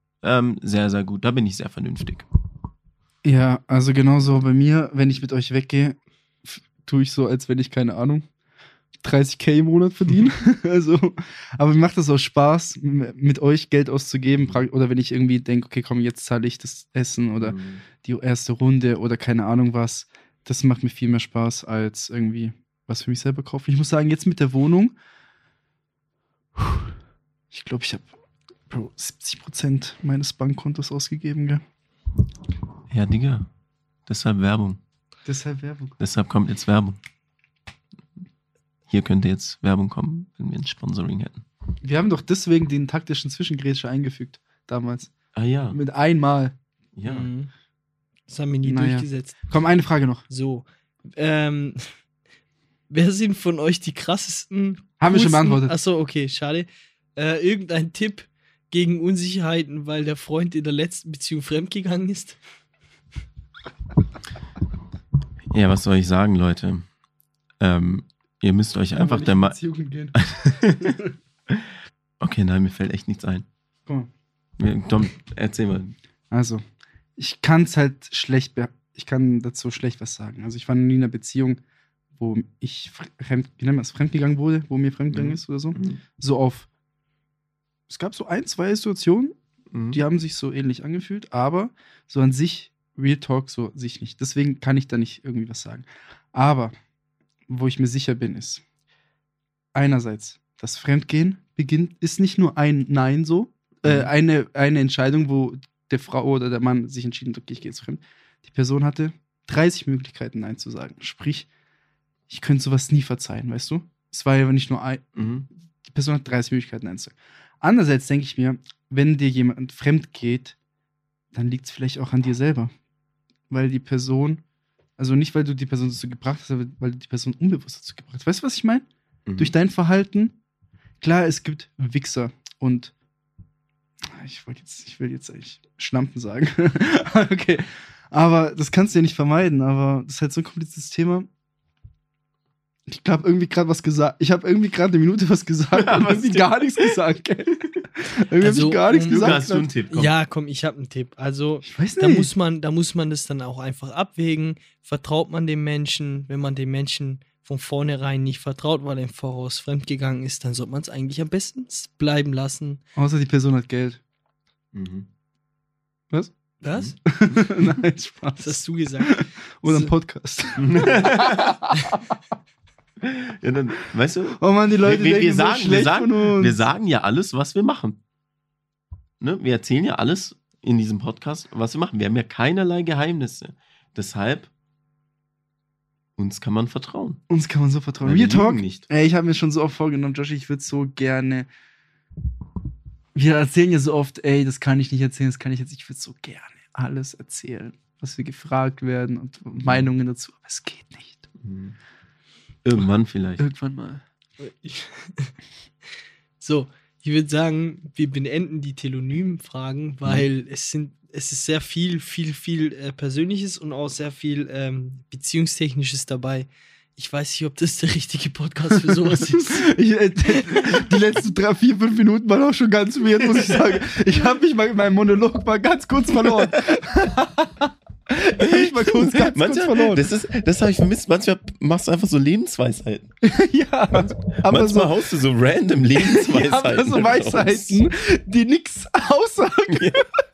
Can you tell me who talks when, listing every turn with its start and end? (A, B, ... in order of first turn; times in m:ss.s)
0:00.2-0:02.2 A
0:03.2-0:08.2 B
0:09.0-0:24.9 B
0:17.4-0:17.8 A
0:26.6-0:26.9 B
0:27.5-0:28.1 B
0:28.7-0:31.6 B
0:32.9-0:33.5 A
0:34.0-0:34.8 A
0:35.2-0:36.0 B
0:36.0-0:37.0 A
0:38.9-0:41.4 A
0:41.8-0:45.1 B
0:45.3-0:45.8 A
0:45.7-0:46.5 B
0:47.0-0:47.3 A
0:47.1-0:47.5 C
0:48.3-0:49.4 C
0:48.6-0:50.2 B
0:50.3-0:51.9 C
0:52.9-1:02.4 C
0:55.0-0:55.7 B
1:05.5-1:06.8 A
1:07.6-1:09.6 A
1:08.9-1:10.2 B
1:10.1-1:11.0 A
1:10.8-1:11.1 B
1:12.2-1:13.4 A
1:14.6-1:15.9 A
1:16.3-1:16.6 B
1:17.2-1:21.6 B
1:22.2-1:26.7 B
1:25.1-1:26.0 A
1:27.9-1:29.4 B
1:29.7-1:30.0 A
1:29.9-1:36.7 B
1:37.5-1:38.6 B
1:39.7-1:51.5 B
1:43.8-1:44.1 A
1:52.3-1:55.2 B
1:55.2-1:55.4 A
1:55.8-2:00.6 B
2:01.3-2:02.7 B
2:03.5-2:04.4 B
2:05.0-2:08.8 B
2:09.2-2:09.5 A
2:09.4-2:10.3 B
2:11.0-2:12.9 B
2:14.0-2:21.3 B
2:22.9-2:29.7 B
2:25.7-2:26.9 A
2:28.4-2:29.4 C
2:29.1-2:30.1 A
2:29.9-2:42.8 C
2:31.6-2:32.3 B
2:43.0-2:44.0 B
2:44.7-2:45.1 A
2:46.6-2:47.0 C
2:47.0-2:52.0 B
2:48.4-2:49.9 C
2:50.6-2:51.6 A
2:53.0-2:58.0 A
2:54.4-2:56.6 B
2:59.2-3:04.5 A
3:06.2-3:07.2 A
3:07.3-3:11.5 B
3:08.0-3:08.8 A
3:13.1-3:21.3 B
3:19.6-3:19.9 A
3:21.4-3:21.8 A
3:22.6-3:23.4 A
3:23.4-3:24.0 B
3:24.4-3:25.3 C
3:26.4-3:39.7 C
3:38.8-3:50.0 B
3:40.4-3:41.0 C
3:46.2-3:46.5 A
3:48.4-3:53.1 A
3:53.2-3:54.9 B
3:54.1-3:57.8 A
3:55.9-4:00.0 B
3:59.7-4:00.0 A